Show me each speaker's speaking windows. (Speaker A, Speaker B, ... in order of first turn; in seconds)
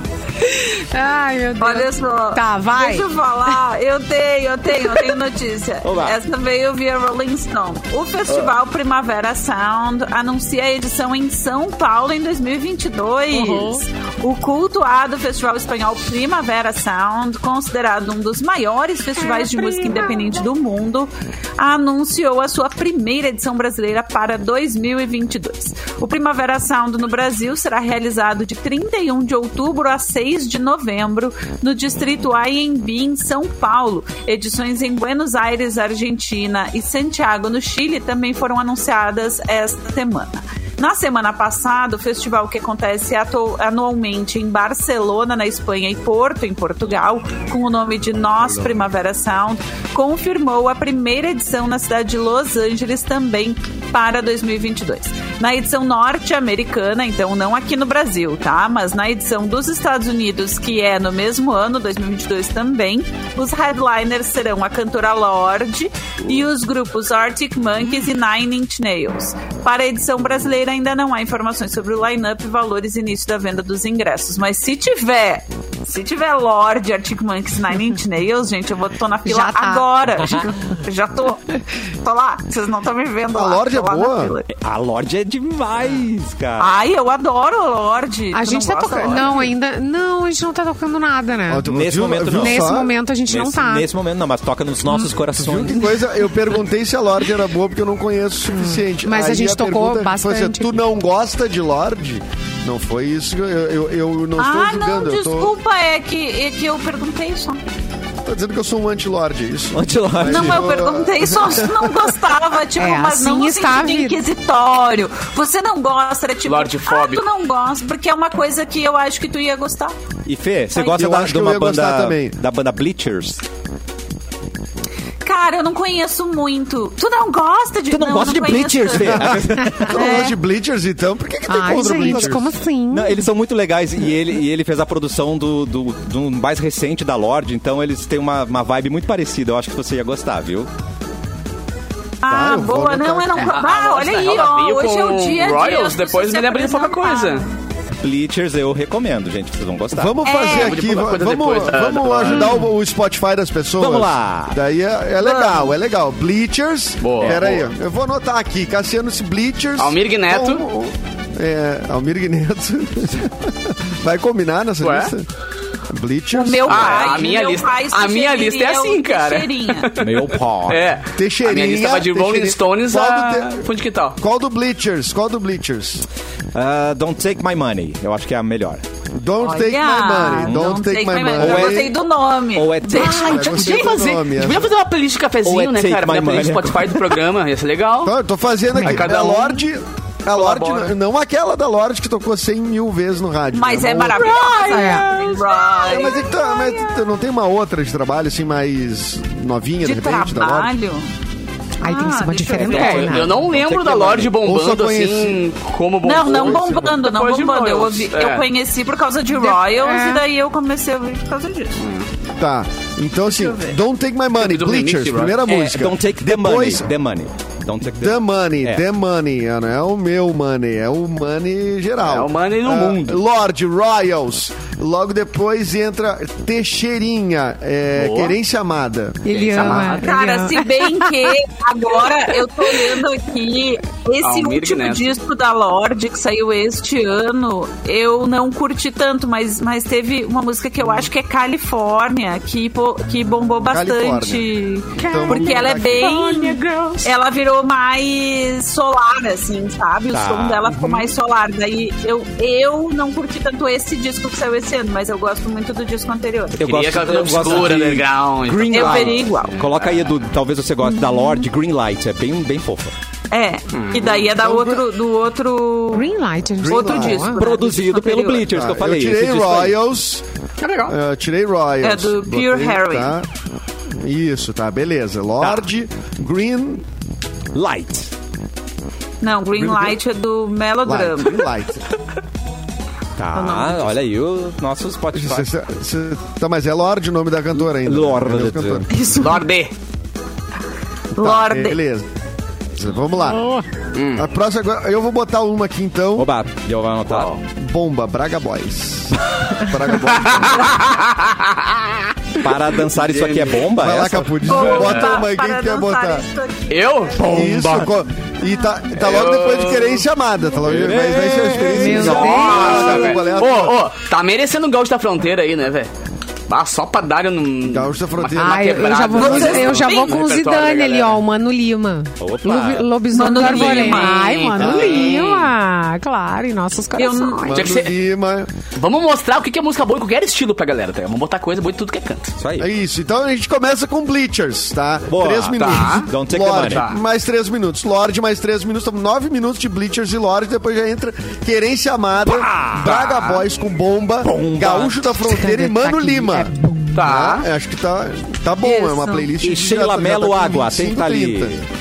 Speaker A: 0.4-3.1, 13.4-13.8, 19.3-20.1, 79.2-79.8, 88.3-91.6, 92.3-93.9, 98.5-100.8, 112.8-114.2, 131.5-133.2, 194.7-195.1, 201.8-203.3, 209.3-210.2, 229.2-231.3, 244.9-247.1, 265.9-267.4, 311.7-313.0, 318.4-327.6, 345.2-347.0
Speaker B: 1.6-84.5, 86.6-89.5, 104.4-107.6, 110.2-119.9, 125.2-130.4, 142.2-147.5, 150.2-150.8, 155.2-155.7, 166.3-169.9, 179.4-183.9, 193.5-196.4, 199.8-201.1, 201.8-203.2, 206.0-211.8, 213.4-213.8, 229.7-256.6, 258.7-259.6, 263.3-266.1, 266.7-268.4, 271.8-273.1, 279.2-281.5, 283.3-283.9, 288.9-289.4, 291.1-291.8, 304.4-306.8, 319.2-320.2, 323.1-324.6, 326.9-327.6, 348.6-349.3
Speaker C: 5.8-6.2, 84.5-86.7, 91.7-95.8, 109.7-110.7, 120.2-123.4, 127.9-130.2, 131.8-132.4, 132.9-140.7, 148.0-150.1, 153.8-154.6, 170.0-170.8, 176.5-178.8, 180.4-180.7, 181.3-181.9, 182.5-183.3, 185.4-187.1, 203.3-204.1, 215.5-218.8, 250.1-251.0, 256.6-262.9, 267.3-269.8, 277.5-278.1, 283.2-285.5, 287.7-288.9, 296.1-297.3, 302.4-304.4, 307.2-307.9, 310.6-313.2, 322.2-322.9, 332.4-332.7, 335.1-336.9, 342.2-343.4, 344.2-345.2, 349.4-351.6
Speaker D: 83.3-84.3, 91.5-92.9, 95.3-105.5, 108.2-112.1, 120.8-122.3, 129.0-132.5, 142.3-143.5, 149.9-165.3, 165.9-167.3, 171.2-173.7, 174.2-176.0, 179.1-181.9, 183.0-184.7, 188.0-194.3, 195.9-200.7, 203.2-205.4, 206.2-207.0, 212.4-216.8, 218.0-229.9, 243.7-244.4, 245.0-246.1, 264.0-264.8, 266.6-267.3, 268.4-270.2, 270.8-273.3, 273.9-276.8, 280.9-281.8, 285.1-288.9, 291.2-292.1, 292.7-293.6, 294.1-296.3, 297.5-301.0, 303.6-306.2, 307.2-313.8, 317.6-319.7, 324.6-325.1, 327.4-328.5, 332.6-351.6
Speaker E: 116.5-117.2, 143.3-147.5, 150.4-152.7, 157.0-157.7, 159.8-160.7, 164.8-165.1, 166.7-174.2, 182.9-188.2, 188.8-189.6, 190.3-190.9, 194.2-196.1, 202.6-208.4, 211.8-212.1, 214.3-215.4, 222.0-223.2, 227.9-228.3, 229.3-230.1, 234.2-235.1, 256.6-260.1, 263.7-264.2, 270.6-270.9, 289.1-289.7, 293.9-294.2, 297.1-297.4, 300.1-302.1, 303.1-303.5, 304.4-305.2, 306.7-307.6, 308.9-310.0, 311.9-315.9, 316.5-321.2, 323.4-325.5, 327.5-327.9, 328.7-332.3, 335.5-336.1, 336.6-337.0, 342.9-343.4, 346.9-347.5